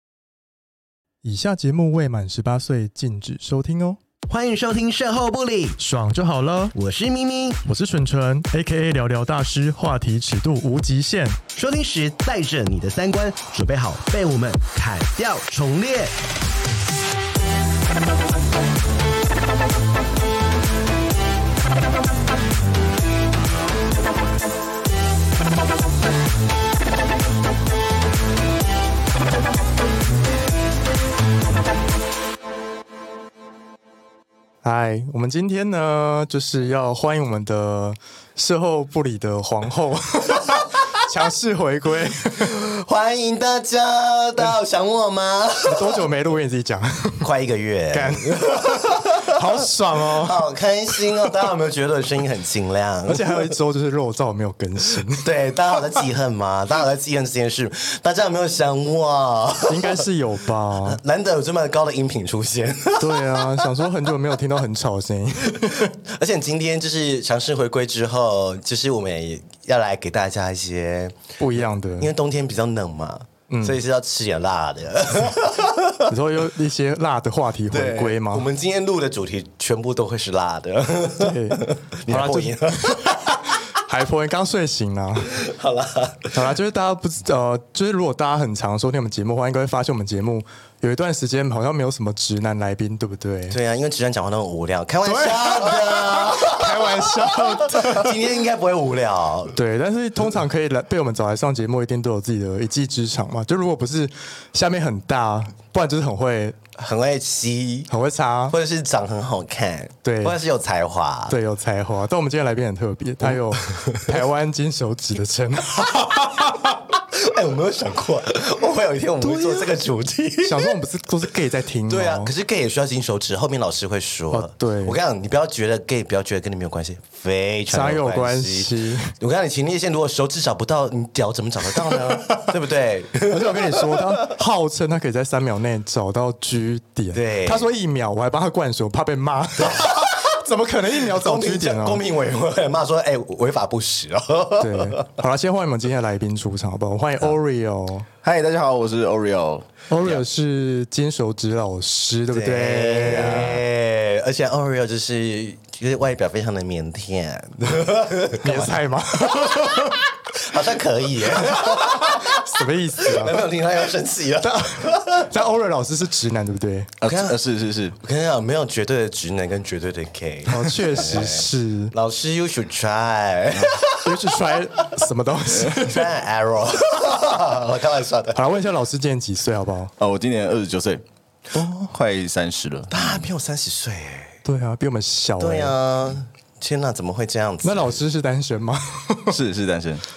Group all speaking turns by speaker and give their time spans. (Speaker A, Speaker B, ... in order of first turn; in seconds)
Speaker A: 1.2-4.0, 5.8-6.7, 7.7-11.4, 34.6-42.5, 45.6-47.3, 47.9-50.5, 53.1-55.2, 59.7-61.0, 63.0-65.9, 71.4-72.1, 73.5-73.8, 76.1-78.5, 81.2-85.4, 86.3-93.6, 95.0-98.3, 99.5-106.6, 107.9-108.5, 110.0-110.4, 111.3-116.8, 119.2-119.8, 120.4-122.3, 124.3-125.0, 127.7-129.1, 133.3-142.0, 144.6-148.1, 149.9-153.6, 158.4-160.1, 161.4-163.5, 164.4-166.9, 170.5-171.9, 173.9-176.1, 178.3-179.9, 184.4-185.7, 187.6-189.4
Speaker B: 4.3-5.8, 6.7-7.6, 11.5-16.2, 42.4-46.0, 47.2-49.4, 50.2-53.5, 55.2-60.0, 60.8-64.1, 65.5-71.3, 72.0-76.1, 77.7-83.6, 85.3-86.4, 93.5-99.5, 106.8-107.9, 108.5-111.3, 113.2-114.2, 116.9-120.7, 121.9-134.2, 137.1-137.7, 139.6-140.4, 141.0-145.2, 152.3-165.3, 167.1-167.4, 168.0-174.9, 175.6-178.4, 182.9-184.4, 185.4-188.0
Speaker C: 148.2-150.2, 167.0-167.9, 180.0-183.2, 189.3-190.0